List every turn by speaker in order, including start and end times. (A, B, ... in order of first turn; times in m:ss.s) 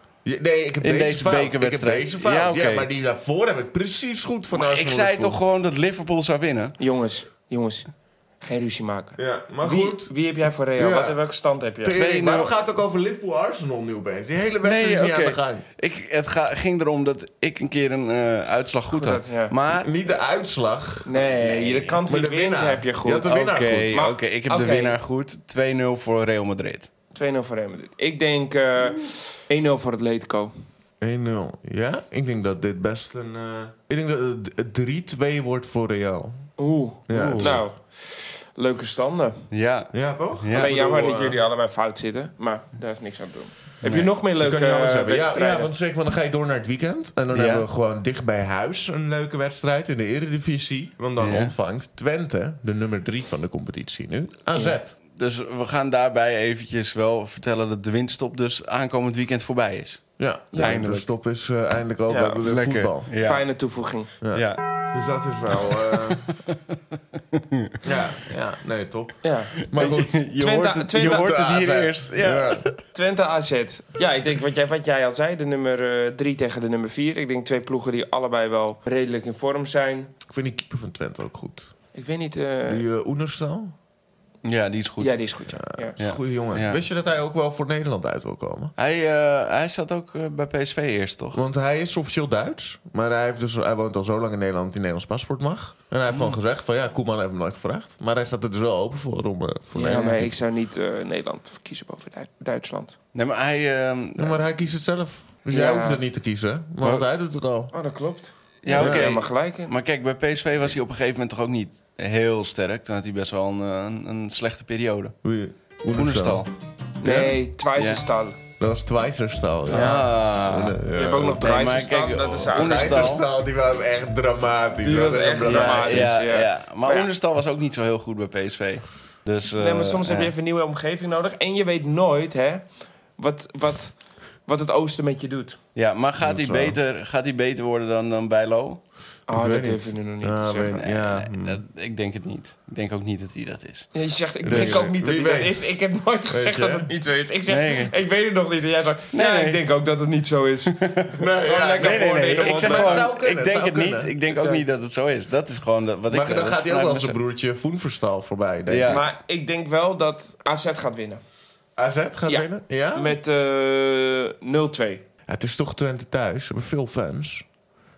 0:00.2-0:05.4 A
0:00.8-0:02.9 B
0:04.5-0:06.7 B
0:06.8-0:12.0 C
0:09.2-0:10.1 A
0:10.8-0:11.2 A
0:11.8-0:15.6 A
0:11.9-0:12.5 B
0:14.6-0:19.9 B
0:18.9-0:19.5 C
0:19.8-0:24.0 A
0:21.0-0:23.3 C
0:23.2-0:26.9 B
0:23.9-0:25.0 C
0:27.1-0:30.5 C
0:31.0-0:36.5 A
0:36.6-0:39.5 C
0:37.1-0:37.6 A
0:37.1-0:37.6 B
0:39.5-0:40.7 B
0:39.9-0:41.4 A
0:40.5-0:45.7 C
0:43.8-0:44.1 B
0:44.4-0:55.0 A
0:47.3-0:47.6 B
0:51.2-0:51.5 B
0:55.1-1:01.1 B
1:00.2-1:03.1 A
1:00.5-1:00.8 C
1:02.1-1:02.4 C
1:02.4-1:03.5 B
1:03.1-1:04.2 C
1:04.2-1:06.3 A
1:04.3-1:04.6 B
1:06.1-1:07.7 B
1:07.8-1:10.2 A
1:09.2-1:09.6 C
1:09.7-1:12.8 B
1:10.3-1:11.4 C
1:11.0-1:12.7 A
1:12.9-1:20.1 C
1:20.3-1:21.7 A
1:21.9-1:22.8 C
1:22.7-1:23.7 A
1:24.4-1:25.3 B
1:25.0-1:25.9 C
1:25.6-1:28.7 A
1:26.0-1:26.8 B
1:28.8-1:31.4 B
1:31.3-1:40.3 A
1:36.1-1:36.4 B
1:39.7-1:43.0 C
1:43.1-1:44.4 B
1:44.2-1:47.7 A
1:45.5-1:46.0 C
1:46.8-1:47.0 B
1:47.7-1:49.7 C
1:48.6-1:55.2 B
1:48.7-1:49.1 A
1:55.2-1:56.4 A
1:55.9-1:56.5 B
1:57.0-1:58.0 B
1:57.0-1:58.4 C
1:57.0-1:57.3 A
1:58.6-2:01.5 A
1:59.7-2:03.2 B
1:59.7-2:00.1 C
2:00.9-2:03.2 C
2:02.5-2:06.1 A
2:04.8-2:07.1 C
2:05.4-2:10.3 B
2:09.6-2:15.6 C
2:15.7-2:18.8 B
2:16.2-2:16.8 A
2:19.3-2:20.8 C
2:19.3-2:21.6 A
2:20.8-2:24.9 B
2:23.9-2:33.1 C
2:24.4-2:25.6 A
2:26.3-2:26.9 A
2:27.5-2:27.9 B
2:29.1-2:29.6 B
2:30.8-2:31.1 B
2:31.2-2:34.1 A
2:31.7-2:37.2 B
2:34.3-2:34.6 C
2:36.1-2:39.0 A
2:38.7-2:39.0 B
2:38.8-2:41.2 C
2:41.8-2:43.2 A
2:42.3-2:45.0 C
2:45.3-2:47.5 A